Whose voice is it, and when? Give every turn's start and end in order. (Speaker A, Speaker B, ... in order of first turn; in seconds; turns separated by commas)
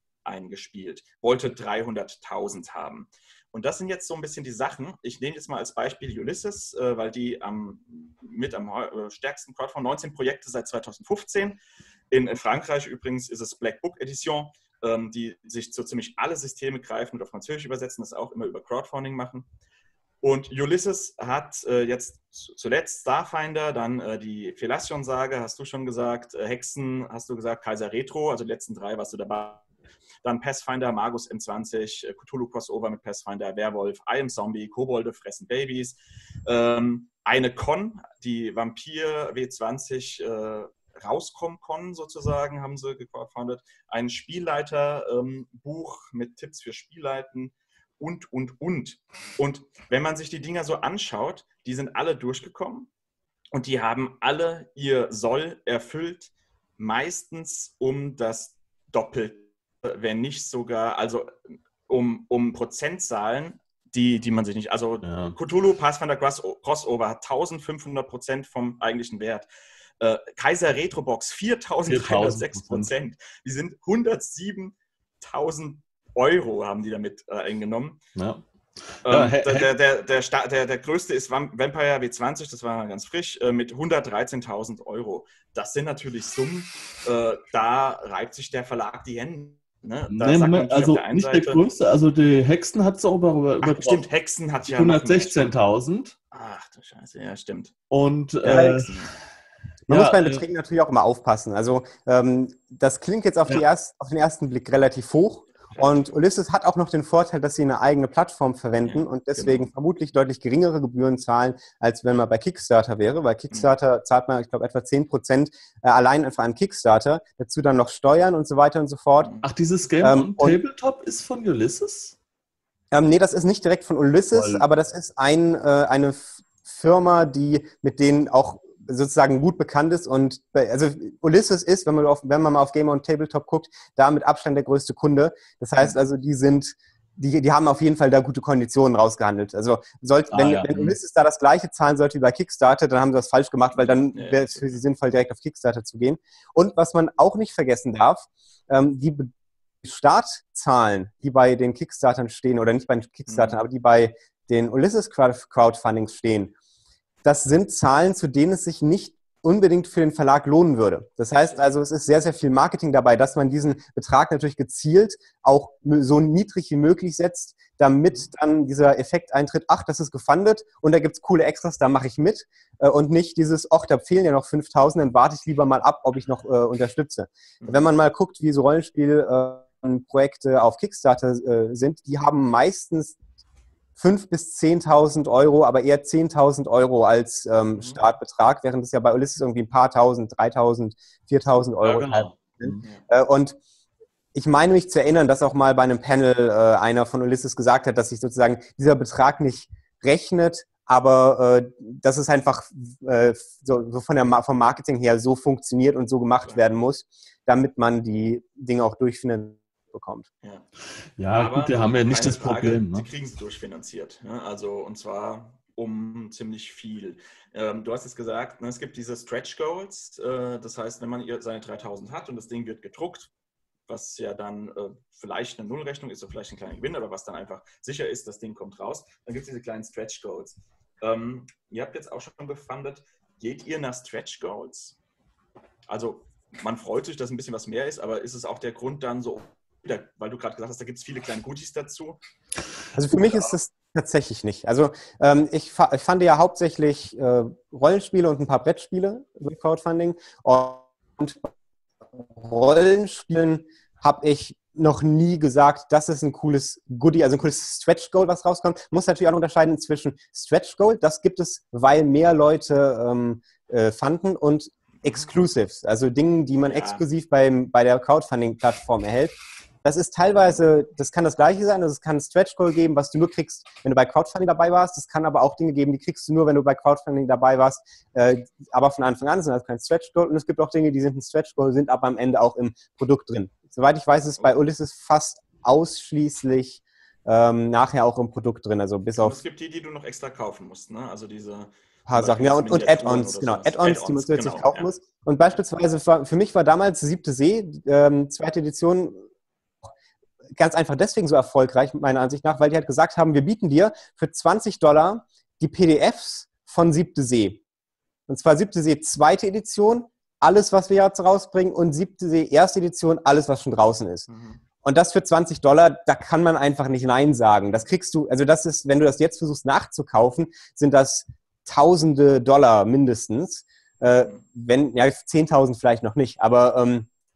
Speaker A: 0.2-19.5, Speaker A: 20.2-29.6, Speaker A: 30.2-52.9, Speaker A: 53.5-69.5, Speaker B: 65.0-65.3, Speaker A: 70.0-78.0, Speaker B: 71.8-72.9, Speaker B: 78.2-78.4, Speaker A: 79.0-91.7, Speaker B: 79.1-79.7, Speaker B: 90.1-94.0, Speaker A: 93.6-95.5, Speaker B: 94.7-96.1, Speaker A: 96.3-97.7, Speaker B: 97.9-98.9, Speaker A: 98.4-99.1, Speaker C: 98.5-98.8, Speaker C: 99.9-119.3, Speaker B: 99.9-100.4, Speaker A: 105.7-106.2, Speaker A: 108.8-109.7, Speaker A: 119.2-119.5, Speaker B: 119.4-122.2, Speaker C: 120.0-120.6, Speaker C: 122.9-149.3, Speaker B: 124.3-124.6, Speaker B: 140.3-141.0, Speaker A: 143.7-144.8, Speaker C: 149.8-156.5, Speaker A: 153.3-153.6, Speaker C: 157.2-183.2, Speaker A: 177.6-177.8, Speaker C: 184.0-193.6, Speaker A: 187.8-188.0, Speaker B: 191.8-192.9, Speaker C: 194.3-210.3, Speaker B: 211.2-213.1, Speaker A: 211.3-223.3, Speaker A: 223.9-235.0, Speaker A: 235.9-242.2, Speaker C: 242.9-251.5, Speaker A: 243.2-243.5, Speaker C: 252.3-289.4, Speaker A: 266.6-267.0, Speaker A: 289.1-294.9, Speaker C: 292.1-299.2, Speaker C: 300.6-307.6, Speaker C: 308.3-314.3, Speaker A: 314.3-314.6, Speaker C: 314.8-327.1